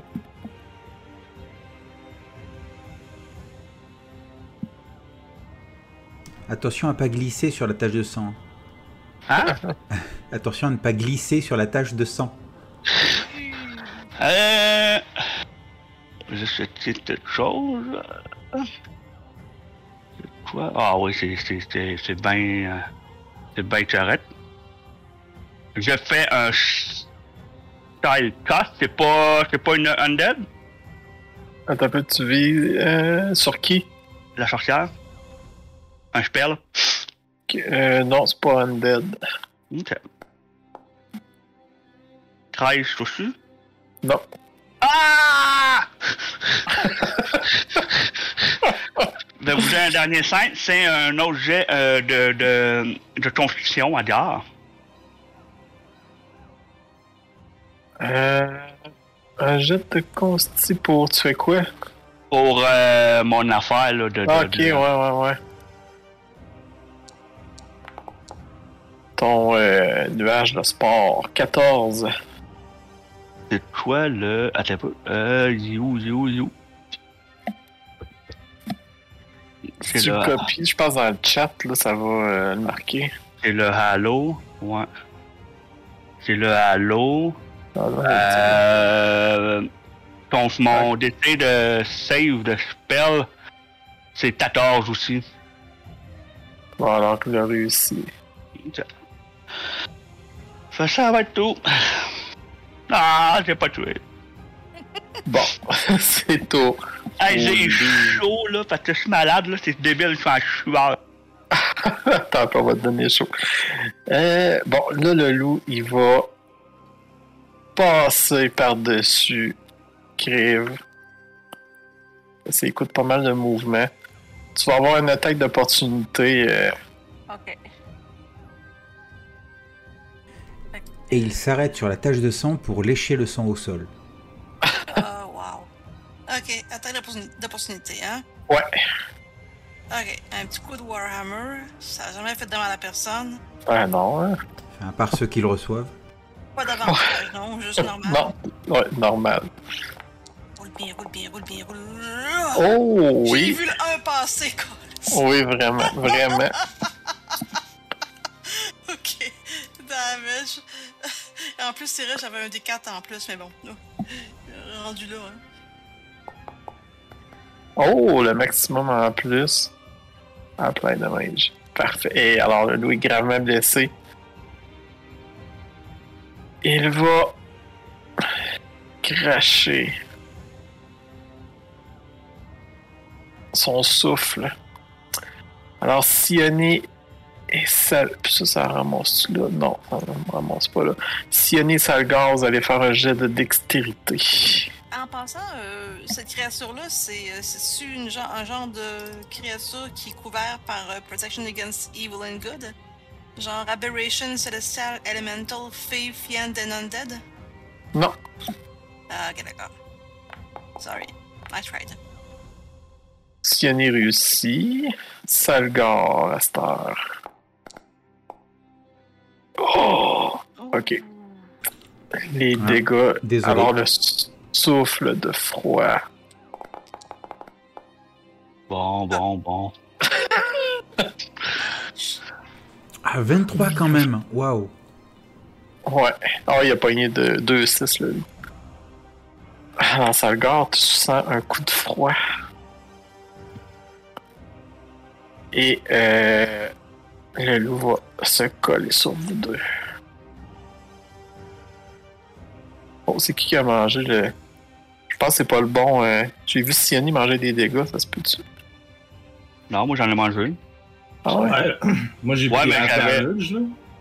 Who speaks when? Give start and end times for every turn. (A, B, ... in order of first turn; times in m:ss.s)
0:06.5-0:08.4 A
0:09.3-0:09.6 B
0:09.5-0:09.7 C
0:09.9-0:12.4 A
0:13.0-0:13.3 B
0:14.2-0:15.0 B
0:16.3-0:18.7 B
0:20.4-0:22.9 B
0:23.6-0:24.2 B
0:25.8-0:27.1 B
0:28.0-0:30.5 B
0:31.7-0:33.9 C
0:34.4-0:34.9 B
0:36.1-0:36.6 B
0:37.5-0:39.2 C
0:39.7-0:40.0 B
0:42.5-0:43.4 B
0:44.8-0:45.9 B
0:46.8-0:47.4 C
0:48.6-0:49.7 C
0:49.4-0:54.4 B
0:58.0-0:58.7 C
0:59.4-1:01.7 C
1:02.3-1:04.8 B
1:04.3-1:05.4 C
1:09.2-1:12.1 C
1:13.5-1:16.5 B
1:19.8-1:20.5 B
1:19.9-1:23.1 C
1:23.4-1:24.9 B
1:26.2-1:27.4 B
1:27.8-1:28.9 C
1:28.0-1:29.7 B
1:30.3-1:33.3 B
1:34.2-1:35.2 B
1:36.8-1:38.1 C
1:40.7-1:42.1 B
1:42.9-1:44.0 B
1:45.3-1:48.2 C
1:47.2-1:51.0 B
1:51.6-1:56.3 C
1:57.8-1:59.6 C
2:00.2-2:00.8 C
2:02.5-2:03.9 C
2:04.6-2:06.7 C
2:07.3-2:07.6 D
2:10.7-2:11.4 D
2:11.1-2:13.9 A
2:14.9-2:15.7 D
2:16.3-2:18.2 D
2:19.9-2:23.4 D
2:23.7-2:24.4 C
2:24.8-2:25.9 A
2:26.6-2:28.3 D
2:28.1-2:29.5 C
2:30.6-2:32.6 D
2:32.6-2:33.6 C
2:33.2-2:35.2 D
2:35.1-2:36.5 C
2:36.0-2:37.6 D
2:38.5-2:45.4 D
2:47.8-2:49.7 C
2:50.6-2:53.9 C
2:56.6-2:57.4 C
2:59.0-3:00.0 C
3:03.5-3:04.5 C
3:05.8-3:06.9 C
3:07.5-3:14.7 C
3:14.9-3:22.8 D
3:23.4-3:27.2 D
3:29.1-3:29.7 D
3:30.8-3:32.0 D
3:33.4-3:37.0 C
3:39.6-3:41.0 C
3:40.6-3:41.5 D
3:42.3-3:46.0 C
3:42.6-3:43.7 A
3:48.7-3:49.7 B
3:50.1-3:51.0 C
3:51.6-3:52.2 D
3:53.1-3:54.7 A
3:53.6-3:54.0 C
3:55.9-3:58.3 C
3:59.8-4:02.2 C
4:05.5-4:06.7 C
4:07.4-4:09.6 C
4:13.1-4:14.3 C
4:15.1-4:18.4 C
4:19.7-4:20.6 B
4:21.3-4:21.6 C
4:21.3-4:23.8 E
4:22.5-4:23.2 B